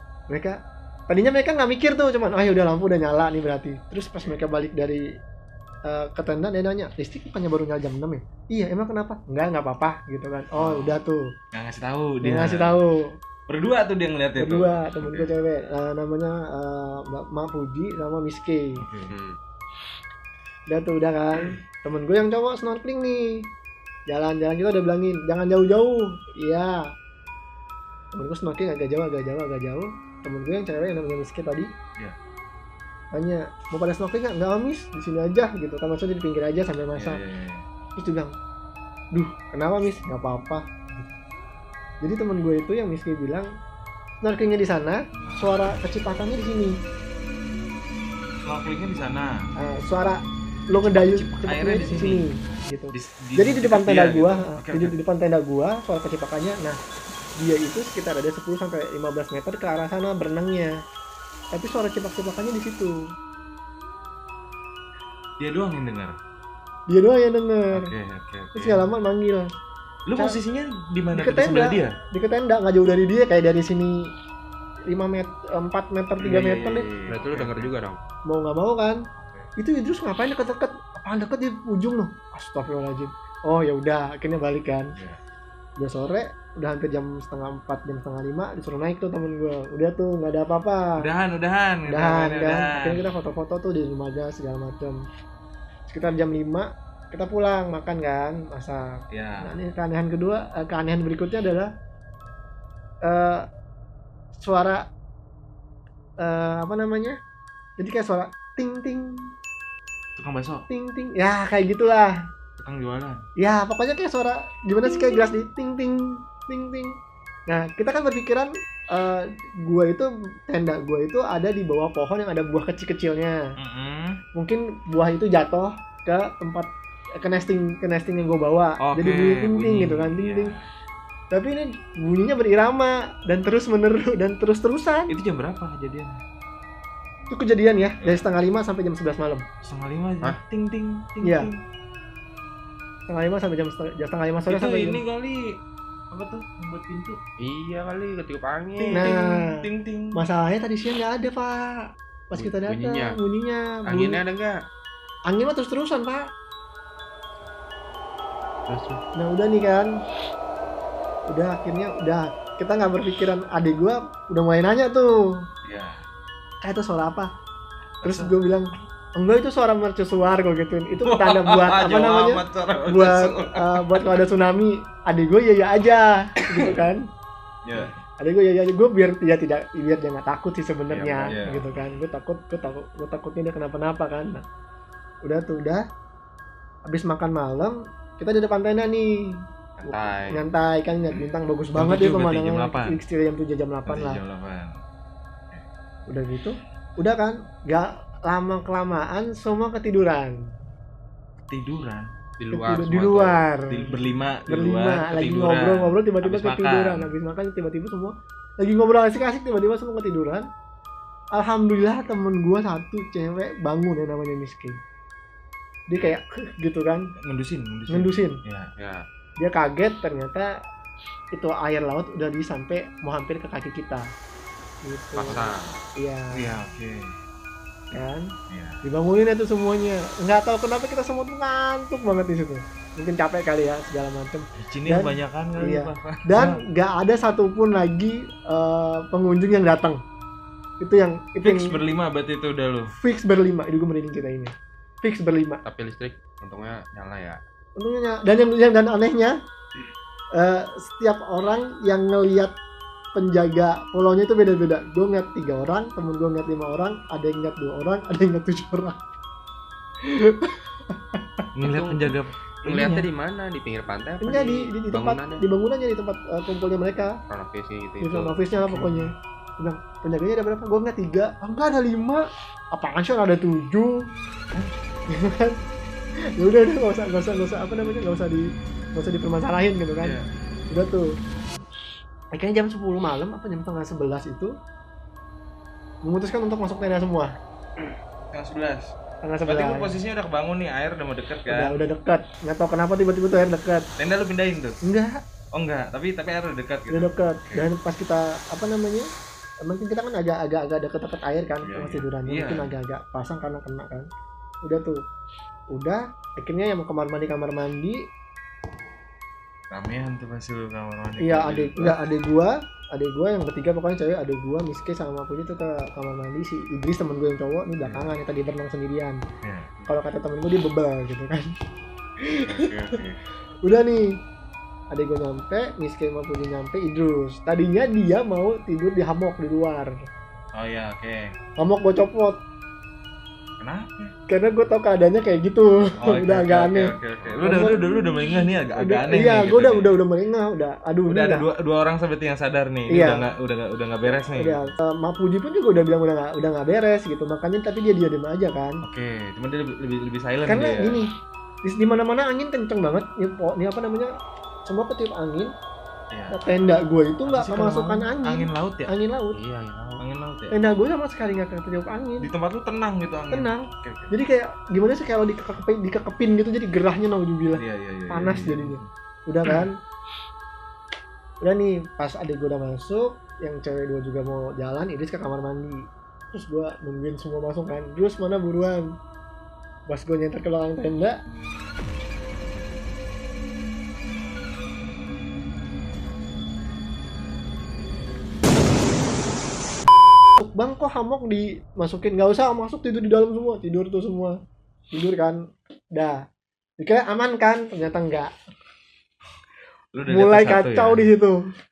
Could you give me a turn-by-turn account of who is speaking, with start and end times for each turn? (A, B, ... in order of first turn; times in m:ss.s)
0:00.3-0:05.0 A
0:05.9-0:11.3 A
0:10.6-0:11.0 B
0:11.5-0:12.8 B
0:12.2-0:13.1 A
0:13.5-0:15.3 B
0:14.4-0:18.8 A
0:18.8-0:19.1 B
0:19.1-0:19.4 C
0:20.7-0:23.5 A
0:24.1-0:26.8 A
0:28.1-0:31.7 A
0:33.1-0:37.2 A
0:37.0-0:37.6 B
0:38.0-0:38.3 A
0:39.1-0:41.1 A
0:42.0-0:43.5 A
0:44.2-0:46.8 A
0:45.3-0:45.5 B
0:48.5-0:49.4 B
0:49.6-0:56.8 A
0:50.7-0:52.3 B
0:52.9-0:55.0 B
0:57.4-1:00.8 A
1:01.5-1:03.0 A
1:05.4-1:06.2 B
1:06.9-1:07.9 A
1:07.7-1:08.9 B
1:08.6-1:09.5 A
1:10.1-1:12.0 B
1:11.2-1:14.1 A
1:14.9-1:16.9 A
1:16.2-1:17.7 B
1:17.1-1:18.0 C
1:18.3-1:19.0 A
1:19.1-1:19.5 B
1:19.6-1:24.9 A
1:25.8-1:31.0 A
1:31.0-1:33.1 B
1:31.9-1:35.0 A
1:35.9-1:41.7 A
1:39.1-1:39.5 B
1:43.0-1:43.5 A
1:44.3-1:44.8 A
1:46.2-1:47.2 A
1:47.8-1:49.3 A
1:50.2-1:50.6 B
1:50.7-1:52.1 A
1:52.6-1:53.2 B
1:53.4-1:57.0 A
1:57.5-2:03.4 A
2:03.6-2:04.2 B
2:04.4-2:06.7 A
2:07.2-2:10.5 A
2:08.8-2:10.6 B
2:11.3-2:15.1 A
2:15.1-2:16.2 B
2:17.3-2:19.4 A
2:18.0-2:18.3 B
2:19.6-2:21.6 B
2:21.2-2:21.5 A
2:23.1-2:25.0 A
2:24.5-2:25.6 B
2:26.1-2:27.2 B
2:27.4-2:29.1 C
2:28.8-2:30.2 B
2:28.9-2:29.6 A
2:30.2-2:34.2 A
2:32.4-2:33.2 C
2:33.9-2:34.6 C
2:35.3-2:36.3 A
2:38.7-2:39.0 C
2:39.2-2:39.9 A
2:41.3-2:45.1 A
2:45.6-2:46.0 B
2:46.6-2:47.3 A
2:48.0-2:48.4 B
2:48.0-2:57.0 A
2:50.9-2:54.0 B
2:56.5-2:56.8 B
2:57.6-2:57.9 B
2:58.2-3:04.4 A
3:00.9-3:01.4 C
3:01.3-3:01.8 B
3:05.2-3:05.8 A
3:06.9-3:14.2 A
3:09.8-3:10.3 C
3:11.8-3:13.0 B
3:13.9-3:14.7 B
3:16.1-3:20.4 A
3:21.5-3:22.1 B
3:22.4-3:23.4 C
3:22.5-3:23.9 A
3:23.7-3:27.1 B
3:24.5-3:30.5 A
3:31.3-3:34.8 A
3:35.9-3:37.0 A
3:37.3-3:38.7 B
3:37.9-3:38.4 A
3:38.8-3:39.0 C
3:39.4-3:40.5 A
3:41.3-3:44.0 A
3:44.8-3:46.6 A
3:45.2-3:45.8 C
3:46.3-3:47.0 B
3:47.9-3:48.3 A
3:48.5-3:48.8 B
3:48.8-4:00.0 A
3:54.6-3:56.6 B
4:00.8-4:01.8 A
4:01.4-4:02.9 B
4:03.0-4:05.6 A
4:05.6-4:07.4 C
4:07.8-4:09.3 A
4:10.4-4:12.6 A
4:13.2-4:19.0 A
4:20.1-4:20.6 A
4:21.6-4:23.1 B
4:21.6-4:22.1 C
4:22.6-4:25.4 C
4:24.2-4:27.2 A
4:27.3-4:28.4 C
4:28.0-4:34.0 A
4:28.6-4:29.1 B
4:35.1-4:35.6 A
4:36.4-4:40.2 A
4:40.0-4:40.3 B
4:40.7-4:41.1 A
4:42.3-4:44.5 A
4:46.0-4:47.3 A
4:48.3-4:48.9 B
4:49.2-4:49.9 A
4:49.5-4:51.8 B
4:51.5-4:53.9 A
4:54.0-4:54.8 B
4:54.8-4:55.1 A
4:55.6-4:57.7 B
4:56.9-4:59.1 A
4:59.6-5:04.1 A
5:01.6-5:02.8 B
5:04.6-5:05.0 A
5:05.7-5:08.0 A
5:09.7-5:12.0 B
5:11.2-5:19.2 A
5:17.8-5:18.2 B
5:19.4-5:19.7 B
5:19.9-5:21.5 A
5:22.2-5:22.7 A
5:22.4-5:23.2 B
5:23.6-5:24.1 A
5:24.9-5:29.9 A
5:30.6-5:31.2 B
5:31.6-5:32.4 A
5:33.6-5:34.1 B
5:34.3-5:36.9 A
5:36.0-5:40.0 B
5:37.4-5:38.0 A
5:38.8-5:41.4 A
5:41.1-5:44.7 B
5:42.9-5:43.3 A
5:44.3-5:48.8 A
5:48.8-5:51.1 B
5:50.5-5:51.1 A
5:51.6-5:54.1 A
5:54.7-5:55.5 A
5:56.1-5:56.4 B
5:56.3-5:59.4 A
5:57.3-5:58.9 B
5:59.4-6:00.0 C
6:00.0-6:00.6 B
6:00.5-6:02.3 A
6:02.2-6:04.1 B
6:03.3-6:09.7 A
6:07.6-6:08.9 B
6:11.4-6:15.8 A
6:16.3-6:18.9 A
6:19.9-6:21.2 A
6:30.4-6:34.4 A
6:34.9-6:35.4 A
6:36.8-6:38.3 A
6:40.0-6:41.1 B
6:40.0-6:41.4 A